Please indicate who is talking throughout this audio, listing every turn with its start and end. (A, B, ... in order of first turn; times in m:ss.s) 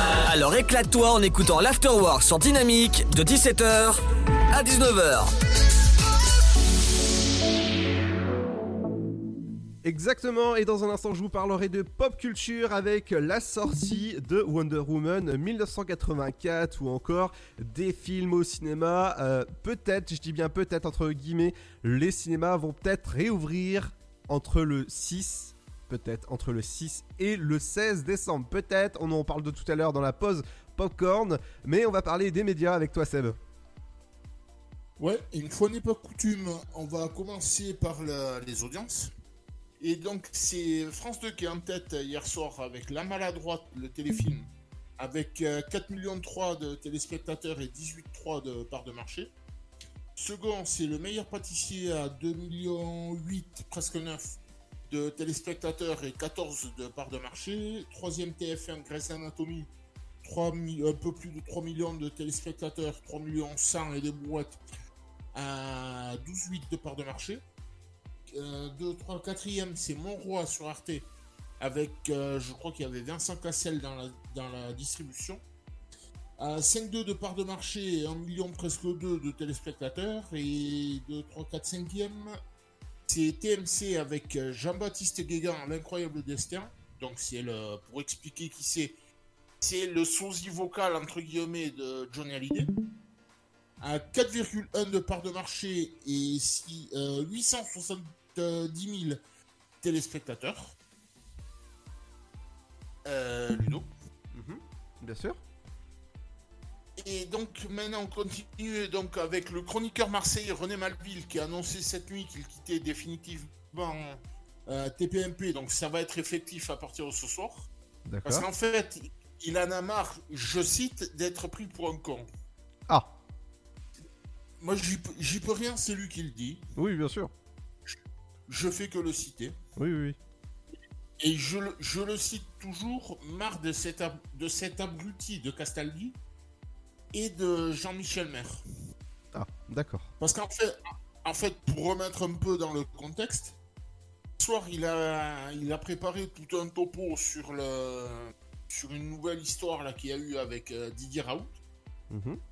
0:00.2-0:05.3 A
0:09.8-0:33.4 B
0:35.0-0:39.1 C
0:39.8-0:49.3 C
0:50.2-0:54.4 C
0:54.9-0:59.7 C
1:00.2-1:04.6 C
1:05.3-1:07.4 C
1:08.3-1:11.1 C
1:11.6-1:15.4 C
1:16.4-1:22.4 C
1:23.1-1:29.0 C
1:29.6-1:32.7 C
1:33.8-1:39.2 C
1:39.8-1:40.7 C
1:43.0-1:43.9 C
1:44.3-1:45.4 B
1:47.0-1:57.7 C
1:58.1-1:58.4 B
1:58.2-2:02.3 C
2:04.6-2:06.6 C
2:06.8-2:07.3 B
2:08.5-2:09.6 C
2:09.8-2:10.2 B
2:11.2-2:16.2 C
2:17.1-2:18.6 C
2:19.3-2:20.1 B
2:20.2-2:23.5 C
2:24.4-2:31.5 C
2:32.1-2:32.4 B